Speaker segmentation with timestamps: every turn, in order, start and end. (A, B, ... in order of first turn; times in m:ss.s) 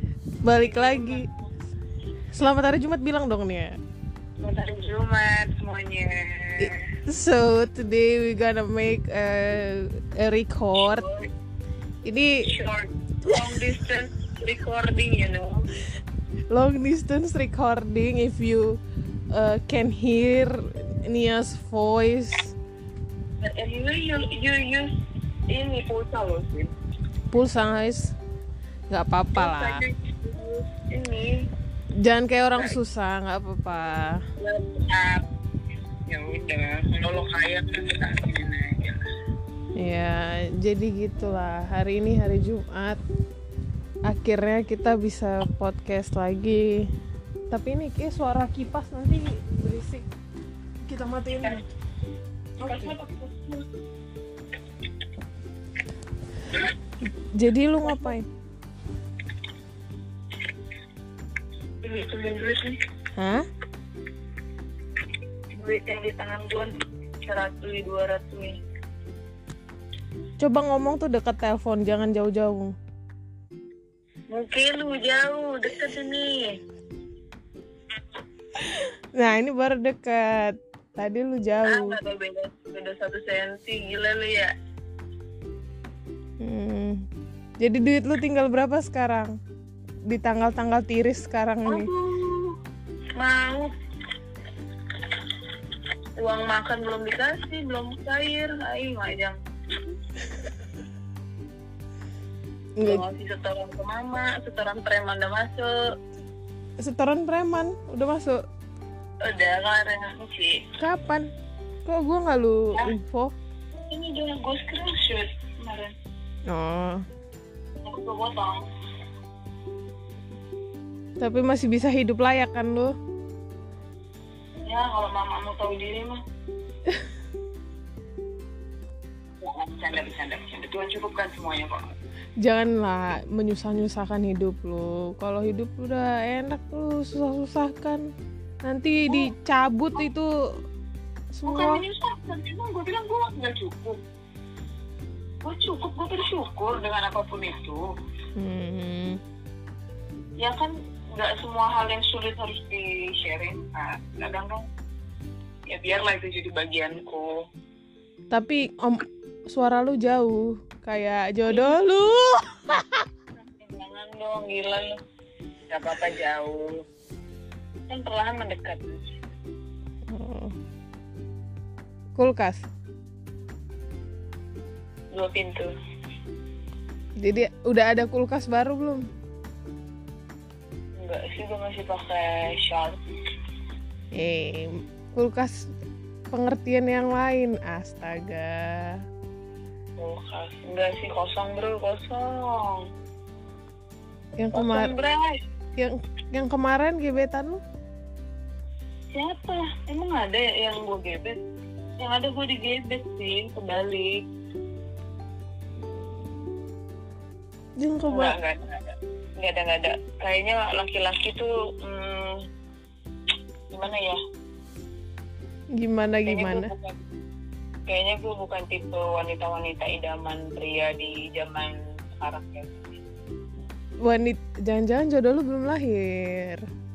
0:00.4-0:01.2 A
0:00.6-0:01.3 B
0:02.3-0:03.7 A
0:04.4-0:06.8 B
0:06.6-0:11.1 A
0:10.8-0:11.3 B
0:12.0-0:12.3 A
0:12.5-0:15.7 B
0:16.5-0:18.7 A
0:19.3-0:22.5 A
0:23.4-0:24.9 B
0:25.5-0:26.7 B
0:27.3-0:28.1 A
0:28.9-0:29.8 A
0:29.4-0:31.3 B
0:32.0-0:34.2 A
0:34.4-0:35.2 B
0:36.1-0:39.0 B
0:39.8-0:43.0 A
0:44.1-0:46.8 A
0:47.5-0:50.0 A
0:50.9-0:51.6 A
0:52.6-0:52.9 A
0:52.6-0:53.6 B
0:57.3-0:58.2 A
0:57.8-0:58.1 B
1:01.8-1:02.7 B
1:03.2-1:03.4 A
1:05.5-1:06.7 B
1:07.2-1:08.6 B
1:10.4-1:12.7 A
1:14.3-1:16.5 B
1:19.2-1:22.0 A
1:21.6-1:24.5 B
1:26.4-1:27.0 A
1:27.6-1:29.3 A
1:30.1-1:31.9 A
1:31.7-1:32.5 B
1:33.2-1:33.7 B
1:36.2-1:39.4 B
1:42.8-1:45.7 B
1:46.8-1:48.4 A
1:49.2-1:50.6 B
1:50.8-1:51.3 A
1:51.8-1:53.3 A
1:53.9-1:55.9 B
1:56.5-1:57.0 A
1:57.8-1:58.6 B
2:01.2-2:02.9 A
2:04.7-2:06.2 B
2:09.4-2:11.9 B
2:12.4-2:18.0 A
2:18.6-2:20.3 A
2:21.3-2:21.8 A
2:21.4-2:24.0 B
2:25.4-2:27.8 B
2:28.4-2:29.2 A
2:30.4-2:34.6 B
2:35.7-2:37.4 B
2:38.3-2:39.0 A
2:39.5-2:43.0 A
2:41.5-2:41.8 B
2:43.5-2:45.0 B
2:45.7-2:46.8 B
2:47.9-2:49.0 B
2:50.1-2:50.5 A
2:52.2-2:52.6 A
2:55.1-2:55.7 B
2:57.2-2:59.0 A
3:01.0-3:03.0 B
3:04.1-3:05.6 A
3:06.3-3:09.0 A
3:10.0-3:12.8 B
3:14.4-3:14.9 A
3:14.5-3:15.4 B
3:15.8-3:17.6 A
3:19.1-3:21.4 B
3:22.0-3:24.2 B
3:27.8-3:28.4 A
3:28.1-3:32.4 B
3:33.7-3:34.2 B
3:35.8-3:36.7 A
3:36.2-3:37.0 B
3:37.9-3:42.9 B
3:44.0-3:46.6 A